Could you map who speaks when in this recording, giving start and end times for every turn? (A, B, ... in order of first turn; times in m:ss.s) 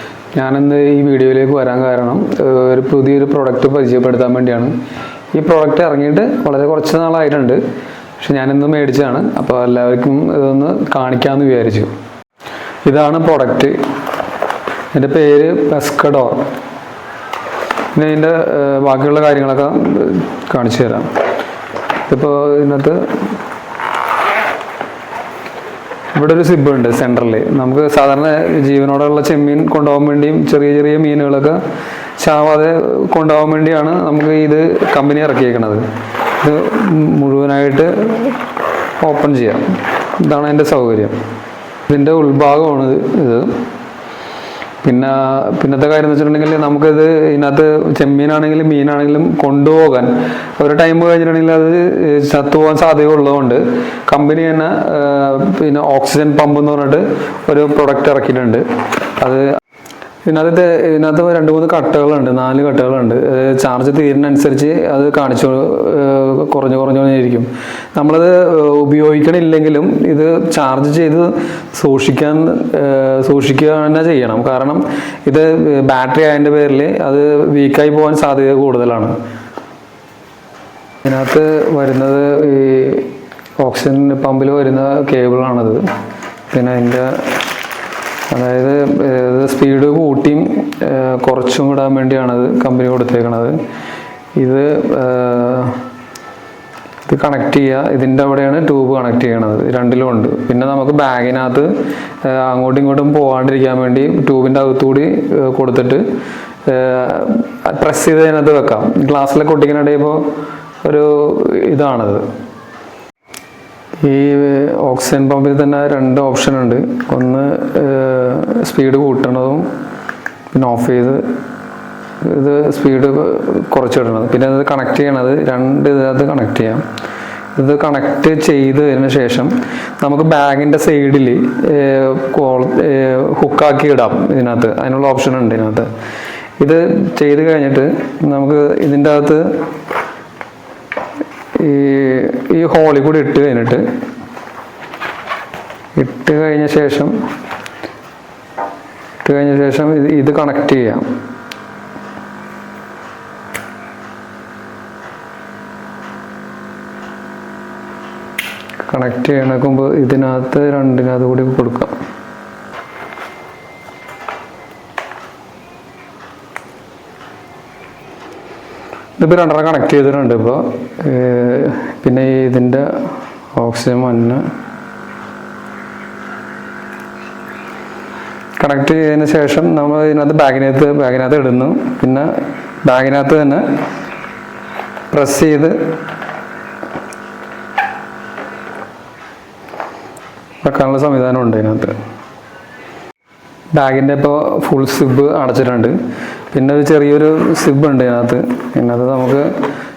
0:00.3-0:04.8 A
0:05.3-0:07.6 A
0:08.2-0:11.9 A
0:12.9-0:13.8 A
0:14.9-0:16.5 A
0:17.9-0:21.1 A
0:22.1-0:23.0 A
0:26.2-0:31.6 A
0:32.2-0:35.8 A
0:36.4-0:38.4 A
0:39.0-0:41.2 A
0:41.9-0:43.6 A
0:44.8-0:58.6 A
0:59.2-0:59.5 A
1:00.2-1:19.2 A
1:21.0-1:25.8 A
1:26.5-1:27.3 A
1:28.3-1:33.6 A
1:34.4-1:35.8 A
1:37.0-1:41.7 A
1:42.2-1:46.0 A
1:46.7-1:50.2 A
1:50.8-1:52.2 A
1:54.0-1:59.7 A
2:00.5-2:01.2 A
2:02.2-2:06.8 A
2:07.6-2:15.9 A
2:16.6-2:19.5 A
2:21.6-2:23.8 A
2:26.0-2:27.1 A
2:29.2-2:31.1 A
2:38.9-2:41.9 A
2:49.2-2:52.9 A
2:53.6-2:54.4 A
2:58.6-3:02.3 A
3:02.8-3:03.6 A
3:05.1-3:05.8 A
3:10.6-3:11.9 A
3:13.7-3:16.0 A
3:16.5-3:19.5 A